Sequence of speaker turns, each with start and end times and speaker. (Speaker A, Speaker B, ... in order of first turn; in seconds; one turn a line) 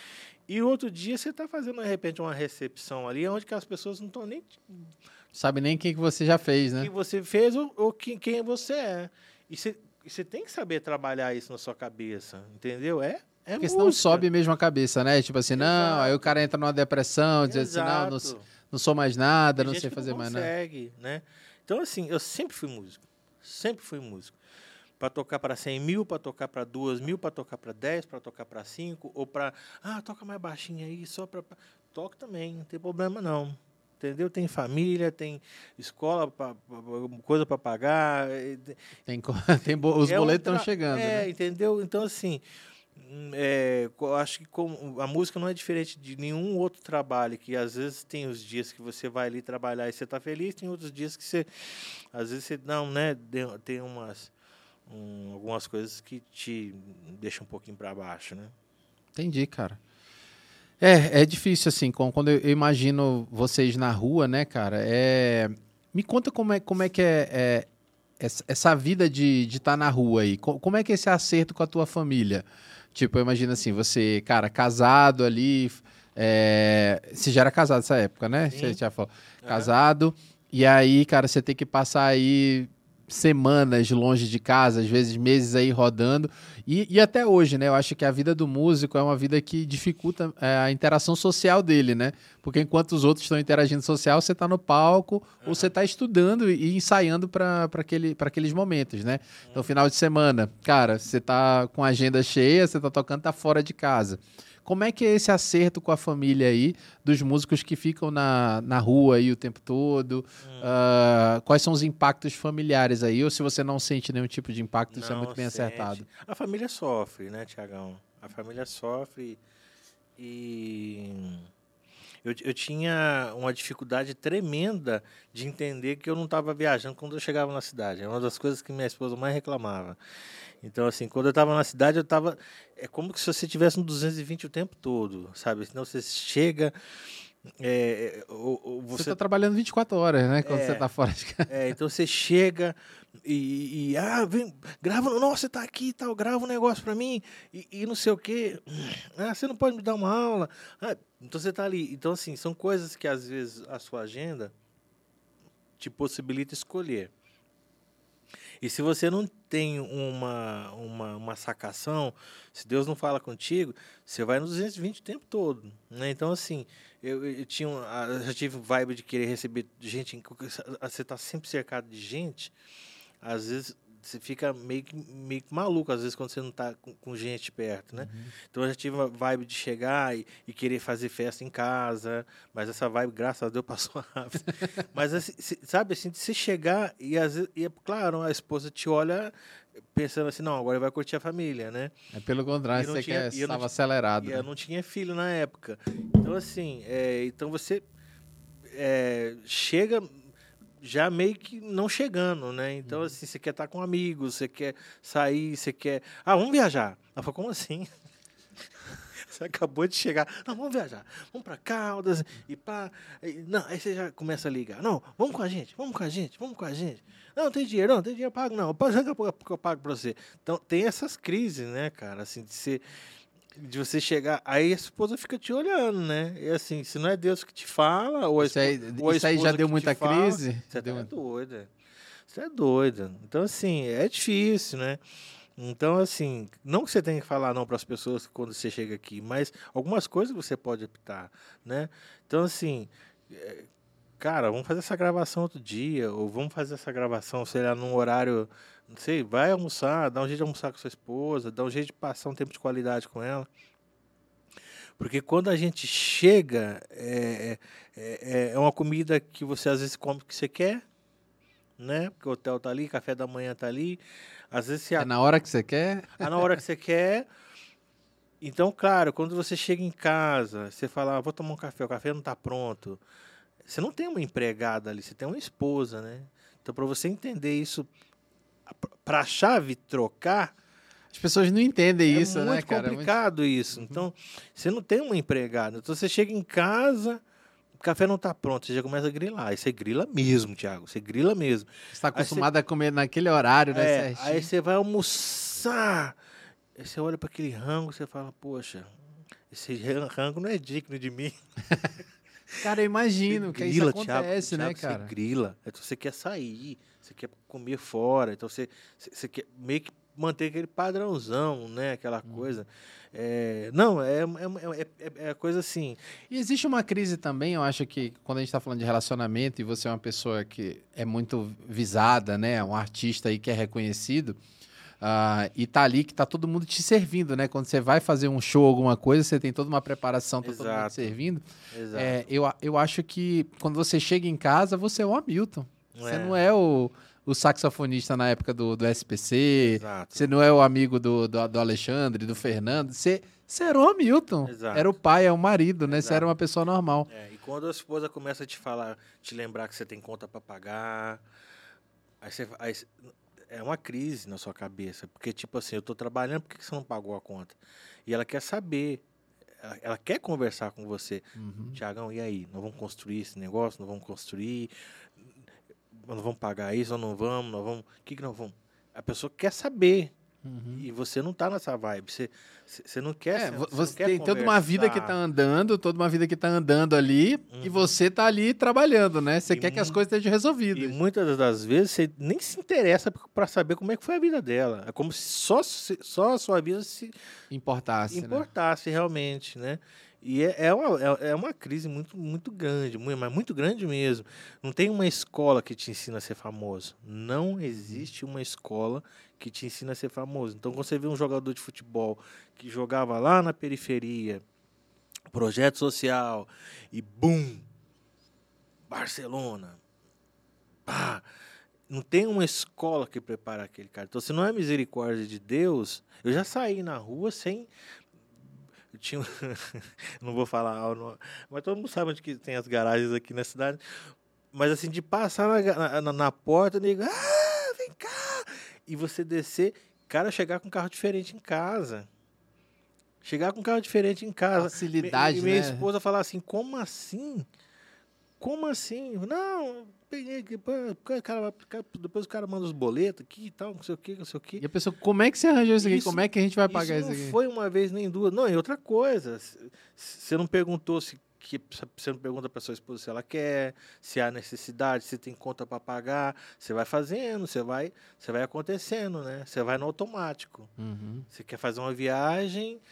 Speaker A: 0.5-4.9
Speaker B: 5.3-6.9
Speaker A: 6.8-14.2
Speaker B: 13.6-20.5
Speaker A: 15.5-16.4
Speaker A: 17.4-18.4
Speaker A: 19.6-24.4
Speaker A: 25.0-38.8
Speaker B: 39.0-41.3
Speaker A: 40.0-42.4
Speaker A: 43.0-54.3
Speaker A: 54.9-58.5
Speaker B: 59.1-59.8
Speaker B: 60.8-67.7
Speaker B: 68.2-116.1
Speaker A: 78.5-78.8
Speaker A: 79.4-79.7
Speaker A: 95.4-95.7
Speaker A: 110.4-110.7
Speaker A: 114.9-119.4
Speaker A: 120.2-121.5
Speaker A: 122.2-130.0
Speaker A: 130.6-136.7
Speaker A: 137.5-139.2
Speaker B: 138.9-141.5
Speaker A: 140.4-140.9
Speaker A: 141.5-154.5
Speaker A: 155.8-157.1
Speaker A: 158.6-172.5
Speaker A: 173.2-189.3
Speaker B: 177.9-178.3
Speaker A: 189.9-191.9
Speaker B: 192.1-194.4
Speaker A: 192.7-193.7
Speaker A: 194.2-197.8
Speaker A: 198.7-200.2
Speaker A: 200.8-207.9
Speaker B: 202.8-203.1
Speaker A: 208.9-222.8
Speaker A: 223.6-231.7
Speaker B: 228.4-231.1
Speaker A: 232.3-235.0
Speaker A: 235.6-243.7
Speaker A: 244.2-253.5
Speaker A: 255.0-260.8
Speaker A: 261.8-264.0
Speaker A: 264.5-265.1
Speaker B: 265.0-266.5
Speaker A: 266.2-267.3
Speaker A: 268.4-273.0
Speaker A: 273.6-277.9
Speaker A: 278.7-280.5
Speaker B: 281.1-283.1
Speaker A: 282.1-287.2
Speaker B: 283.7-284.0
Speaker A: 287.8-292.5
Speaker B: 291.9-294.5
Speaker A: 293.7-296.2
Speaker A: 296.8-298.9
Speaker A: 299.5-301.3
Speaker B: 302.6-305.1
Speaker A: 303.3-316.0
Speaker B: 316.3-324.4
Speaker B: 325.0-347.1
Speaker A: 330.4-331.2
Speaker A: 331.7-332.2
Speaker A: 335.9-336.4
Speaker A: 339.6-340.3
Speaker A: 344.4-344.9
Speaker A: 345.9-346.3
Speaker A: 347.1-351.2
Speaker A: 352.2-352.9
Speaker A: 353.5-359.0
Speaker A: 359.6-364.7
Speaker B: 361.4-361.8
Speaker A: 365.9-370.1
Speaker B: 370.4-370.9
Speaker A: 370.8-375.2
Speaker B: 373.3-381.0
Speaker A: 377.5-377.9
Speaker A: 379.5-380.0
Speaker A: 380.7-387.1
Speaker B: 387.5-388.4
Speaker A: 388.1-404.4
Speaker B: 397.7-398.1
Speaker A: 405.3-407.6
Speaker A: 408.9-409.8
Speaker A: 410.9-411.2
Speaker A: 411.9-417.7
Speaker A: 418.9-432.1
Speaker A: 433.2-437.4
Speaker B: 434.6-435.9
Speaker A: 438.4-444.6
Speaker B: 444.6-447.4
Speaker A: 445.8-460.7
Speaker B: 460.8-461.2
Speaker A: 461.3-462.8